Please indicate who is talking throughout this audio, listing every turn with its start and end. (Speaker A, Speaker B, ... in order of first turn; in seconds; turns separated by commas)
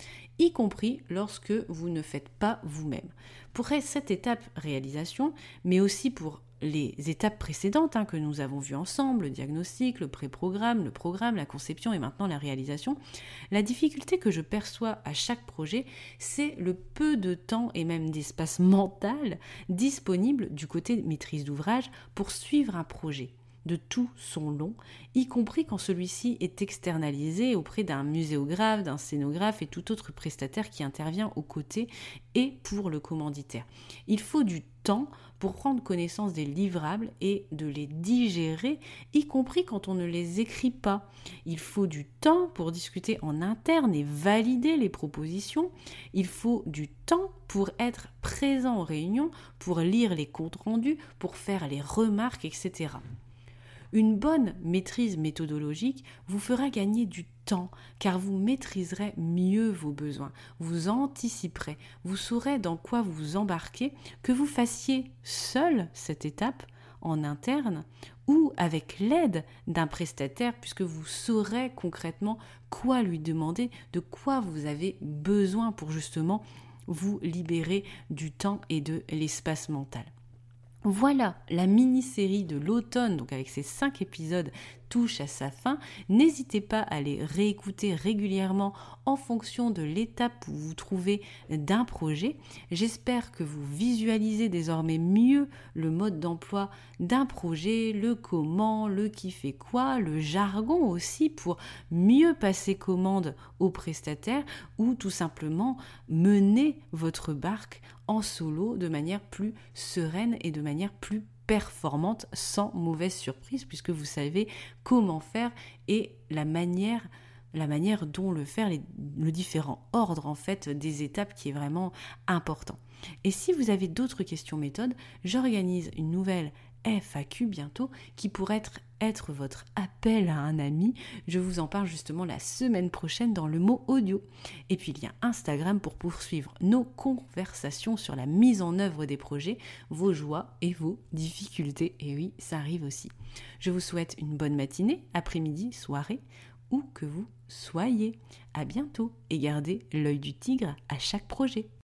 Speaker A: 0.4-13.0, Speaker A: 13.5-53.0, Speaker A: 53.9-80.1, Speaker A: 80.8-151.7